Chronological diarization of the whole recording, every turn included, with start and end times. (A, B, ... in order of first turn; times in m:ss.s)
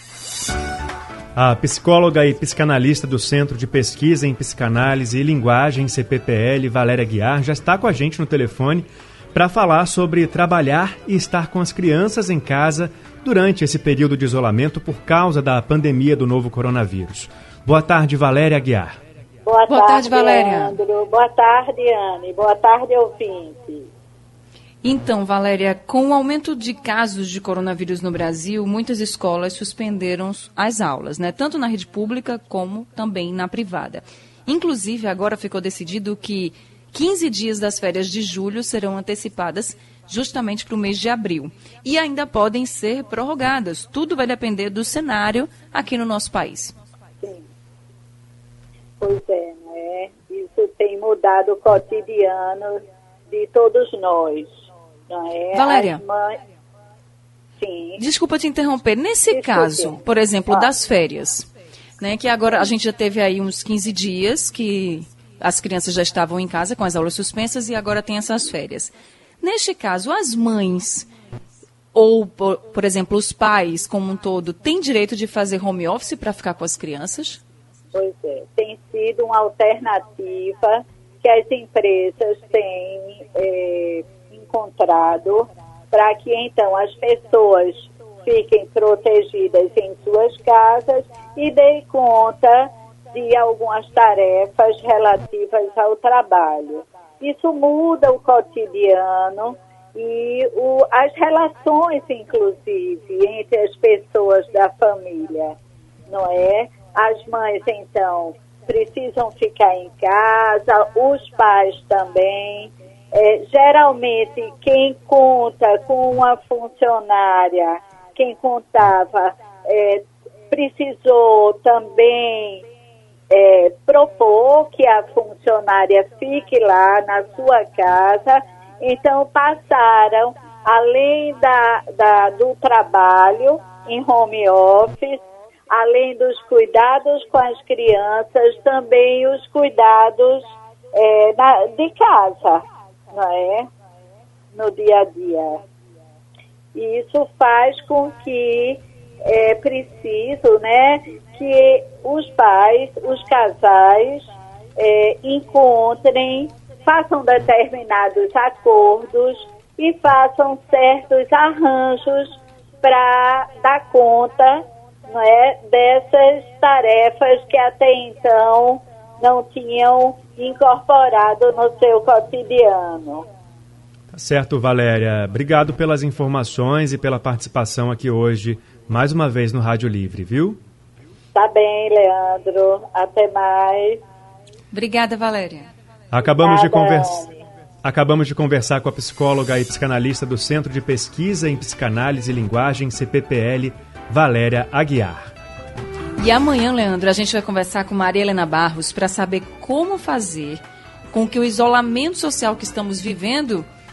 0:01.4-0:19.0 A
0:19.4-0:23.9 B
0:19.7-0:20.8 C
0:24.8-0:46.7 C
0:47.2-0:47.5 B
0:49.0-0:54.6 B
0:55.1-0:56.4 B
0:55.5-0:56.0 C
0:57.6-0:58.0 B
0:58.0-1:01.5 C
0:59.3-1:00.7 B
1:02.0-1:11.1 C
1:11.9-1:17.4 C
1:17.9-2:02.6 B
2:03.3-2:23.7 B
2:24.5-2:25.6 B
2:26.7-2:53.3 B
2:54.1-3:00.6 A
3:01.3-3:04.0 B
3:04.7-3:05.7 C
3:06.1-3:07.2 A
3:06.4-3:07.4 B
3:07.8-3:15.3 A
3:16.2-3:23.7 C